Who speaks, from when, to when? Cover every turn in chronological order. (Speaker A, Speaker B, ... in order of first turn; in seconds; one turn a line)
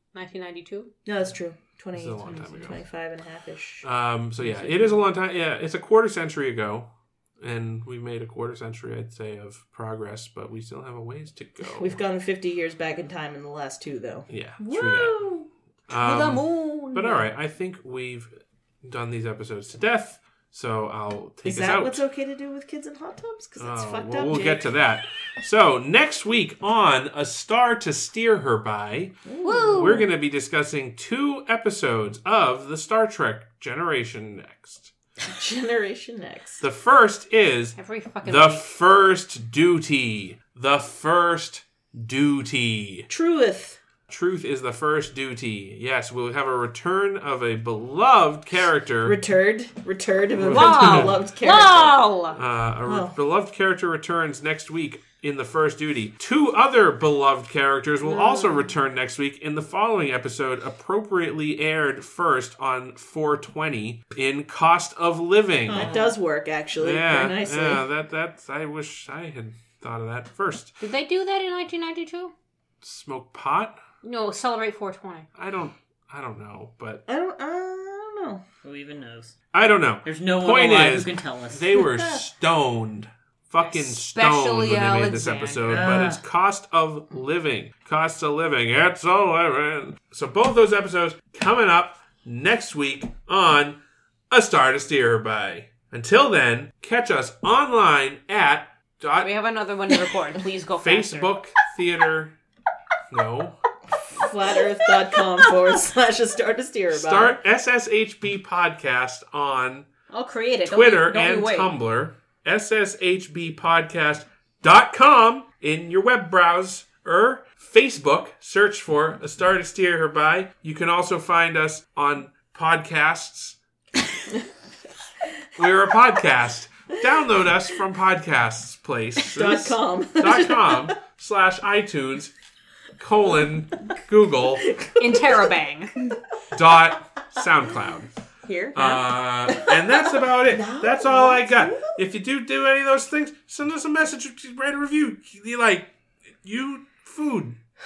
Speaker A: 0.1-0.9
Speaker B: 1.0-3.8
Speaker C: 1.9-2.8
Speaker C: 3.8-6.9
Speaker B: 4.4-5.0
Speaker C: 7.4-12.0
Speaker B: 11.8-14.2
Speaker C: 14.3-15.2
Speaker A: 14.6-17.3
Speaker C: 15.9-18.3
Speaker C: 18.8-22.0
Speaker B: 21.4-24.7
Speaker C: 23.6-29.1
Speaker B: 29.2-30.0
Speaker A: 29.4-30.1
Speaker C: 29.7-34.9
Speaker B: 35.3-36.6
Speaker C: 36.6-43.1
Speaker A: 37.8-38.6
Speaker B: 43.1-43.8
Speaker C: 44.1-49.2
Speaker B: 49.0-51.9
Speaker C: 50.4-51.2
Speaker A: 50.4-52.4
Speaker C: 52.3-66.1
Speaker B: 52.9-53.1
Speaker A: 58.0-58.6
Speaker B: 65.7-67.8
Speaker C: 66.8-70.7
Speaker A: 70.8-72.3
Speaker C: 72.8-73.8
Speaker A: 74.0-75.2
Speaker C: 75.3-77.0
Speaker B: 77.1-78.4
Speaker D: 78.6-79.3
Speaker C: 79.5-93.8
Speaker D: 80.0-81.8
Speaker B: 81.9-82.2
Speaker A: 83.6-85.8
Speaker D: 85.7-86.2
Speaker C: 94.3-99.3
Speaker A: 99.2-101.3
Speaker C: 100.8-102.3
Speaker C: 103.1-103.6
Speaker B: 104.1-107.4
Speaker C: 106.9-109.9
Speaker A: 110.1-111.7
Speaker C: 110.7-123.5
Speaker C: 125.5-132.3
Speaker B: 129.2-130.9
Speaker C: 133.0-134.8
Speaker B: 134.8-135.4
Speaker A: 135.0-136.1
Speaker C: 136.5-138.1
Speaker C: 138.7-145.9
Speaker B: 139.5-139.8
Speaker B: 140.3-141.9
Speaker C: 146.4-147.6